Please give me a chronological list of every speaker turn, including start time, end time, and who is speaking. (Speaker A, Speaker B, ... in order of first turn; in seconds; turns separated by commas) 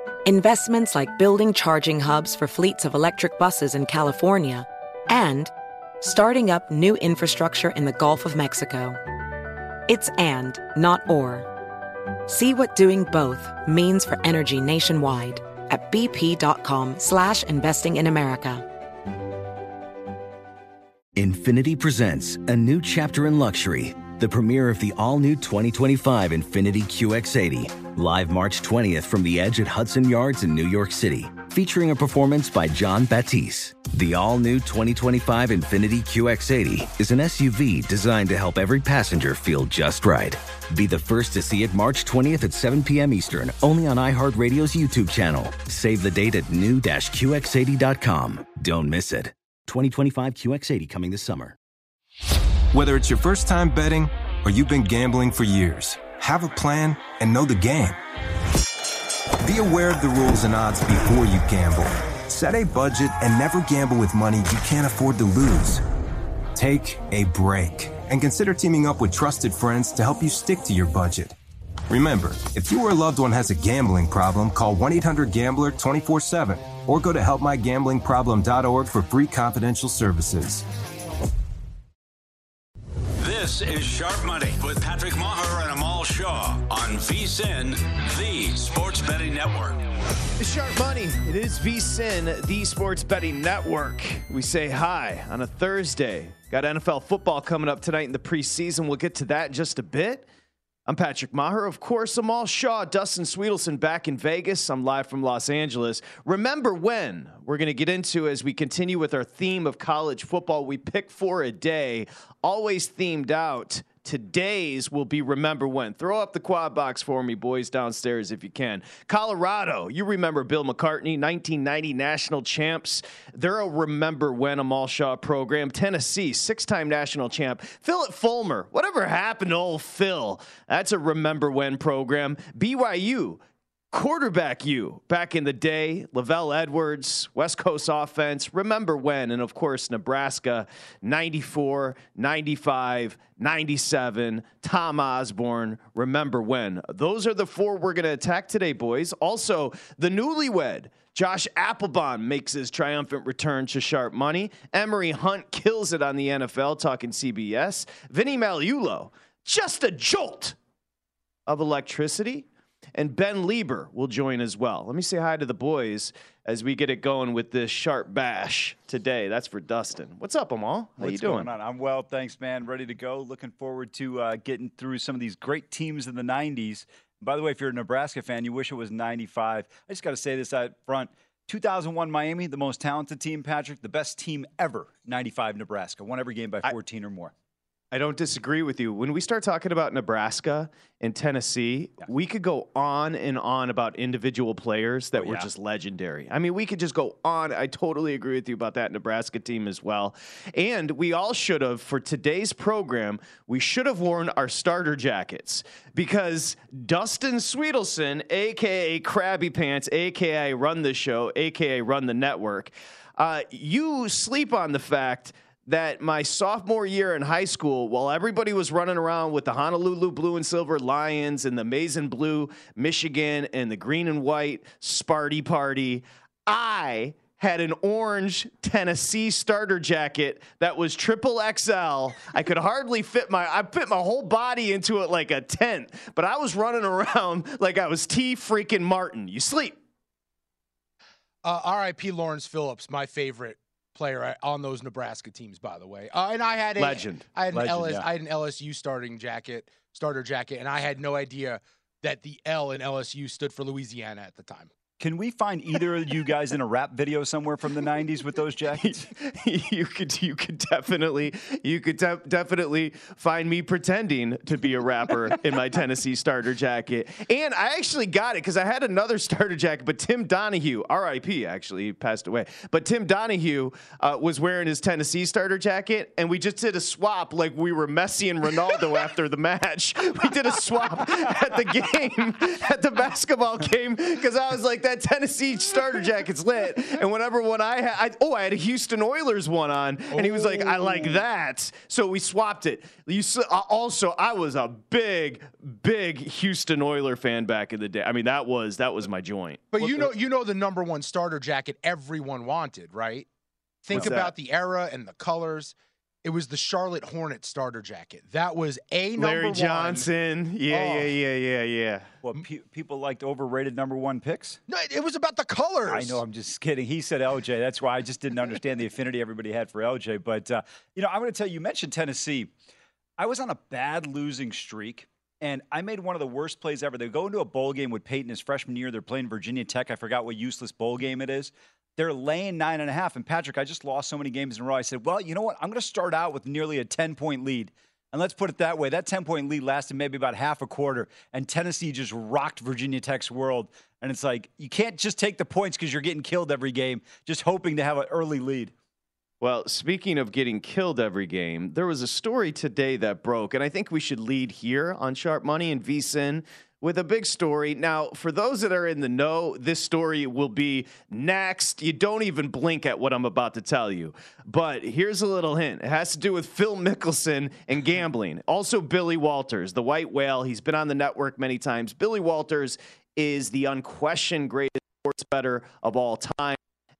Speaker A: 0.2-9.0, Speaker A: 9.9-11.5, Speaker A: 12.3-18.6, Speaker B: 21.1-51.5, Speaker C: 52.7-58.0, Speaker C: 59.4-65.8, Speaker C: 66.5-71.3, Speaker C: 71.9-80.6, Speaker D: 83.2-89.8, Speaker E: 90.4-100.3, Speaker E: 100.9-133.4, Speaker E: 133.9-160.6, Speaker E: 161.5-171.5, Speaker F: 171.0-187.3, Speaker E: 187.9-239.8, Speaker F: 195.2-195.4, Speaker G: 241.4-254.7, Speaker E: 246.8-247.3, Speaker F: 247.5-248.1, Speaker F: 255.0-259.1, Speaker E: 258.8-300.1, Speaker G: 290.1-291.2, Speaker G: 299.7-303.2, Speaker G: 303.8-310.1, Speaker E: 303.9-304.3, Speaker E: 309.1-312.1, Speaker G: 310.7-311.1, Speaker F: 312.2-314.6, Speaker G: 314.7-316.2, Speaker F: 315.9-322.5, Speaker F: 323.2-348.7, Speaker E: 349.4-376.6